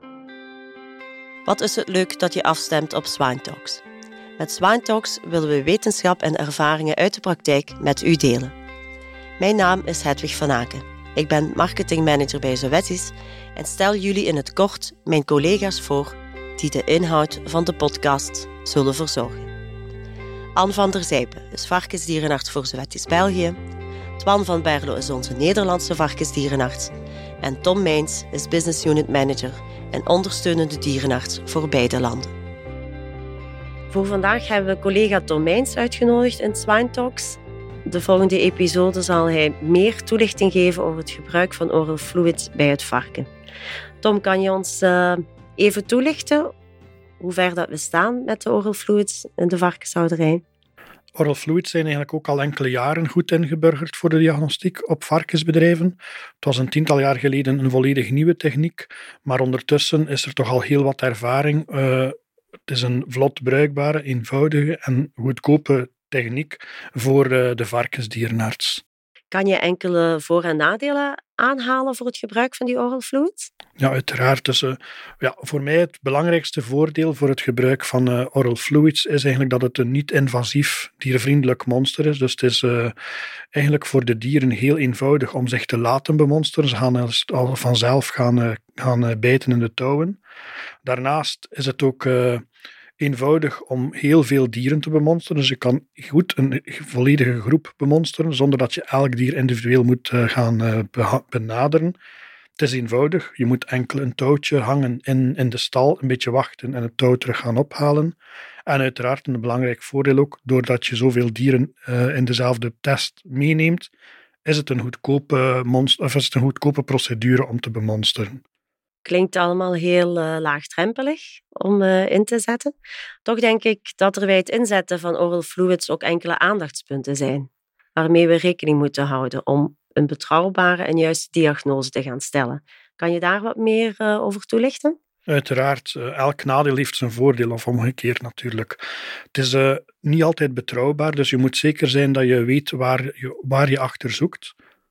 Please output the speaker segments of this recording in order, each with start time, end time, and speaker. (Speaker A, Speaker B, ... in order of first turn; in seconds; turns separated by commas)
Speaker A: 1.5-3.8, Speaker A: 4.4-8.6, Speaker A: 9.4-19.5, Speaker A: 20.6-23.6, Speaker A: 24.2-32.3, Speaker A: 33.9-43.3, Speaker A: 44.0-46.5, Speaker A: 47.2-50.4, Speaker B: 51.2-62.1, Speaker B: 62.7-68.8, Speaker A: 69.3-73.5, Speaker B: 73.8-83.0, Speaker B: 83.5-90.2, Speaker B: 90.8-92.4, Speaker B: 93.0-102.0, Speaker B: 102.6-113.9, Speaker B: 114.5-118.4, Speaker A: 119.0-135.0, Speaker B: 135.3-138.8, Speaker B: 139.3-144.5